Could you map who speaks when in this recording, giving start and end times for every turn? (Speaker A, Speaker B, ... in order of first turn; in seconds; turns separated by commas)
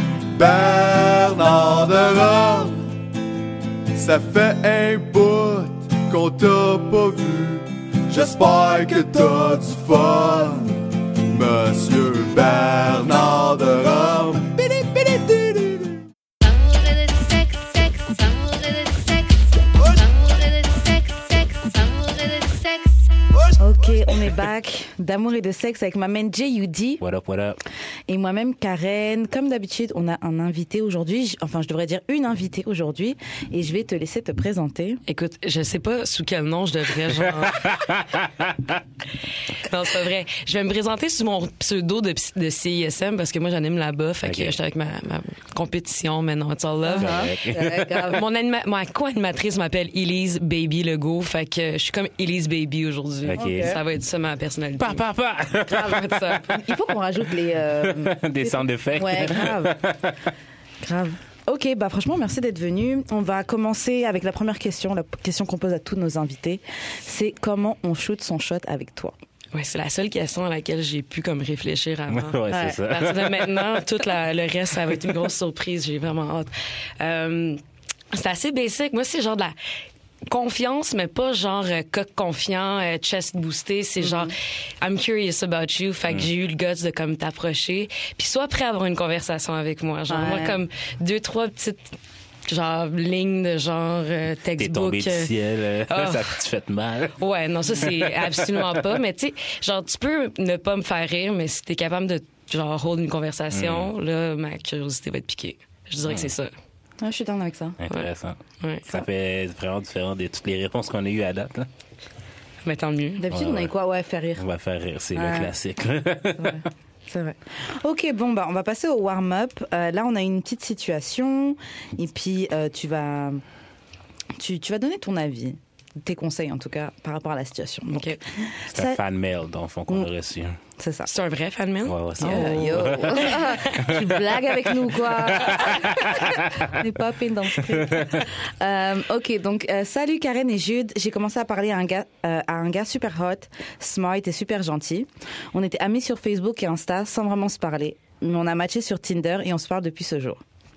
Speaker A: 0.3-2.9, Speaker A: 4.0-16.0, Speaker B: 23.6-27.0, Speaker C: 27.0-27.6, Speaker B: 28.1-35.0, Speaker D: 35.1-37.8, Speaker C: 37.5-38.8, Speaker D: 39.5-47.3, Speaker C: 44.2-44.5, Speaker B: 46.9-48.2, Speaker C: 47.0-48.0, Speaker D: 48.0-55.0, Speaker C: 53.2-53.8, Speaker B: 53.4-53.8, Speaker C: 54.8-56.7, Speaker D: 55.7-56.5, Speaker B: 56.4-59.8, Speaker C: 57.8-60.3, Speaker B: 60.8-69.1, Speaker D: 69.5-77.6, Speaker C: 72.1-73.5, Speaker B: 72.5-72.8, Speaker D: 78.1-79.5, Speaker D: 80.3-95.3, Speaker B: 84.0-84.3, Speaker B: 90.1-90.6, Speaker C: 94.6-97.2, Speaker D: 95.9-96.4, Speaker D: 97.2-106.5, Speaker C: 97.7-98.7, Speaker C: 103.5-103.9, Speaker C: 106.1-106.3, Speaker B: 107.0-107.8, Speaker C: 107.8-111.7, Speaker D: 108.6-108.9, Speaker D: 112.6-113.2, Speaker B: 113.2-114.5, Speaker C: 113.3-113.7, Speaker C: 114.4-116.6, Speaker B: 115.2-115.5, Speaker B: 116.4-123.4, Speaker B: 124.4-129.0, Speaker D: 127.9-128.2, Speaker C: 128.7-130.6, Speaker B: 130.8-131.1, Speaker D: 131.1-133.9, Speaker C: 131.9-134.2, Speaker B: 132.2-150.4, Speaker C: 134.9-136.7, Speaker C: 137.8-138.1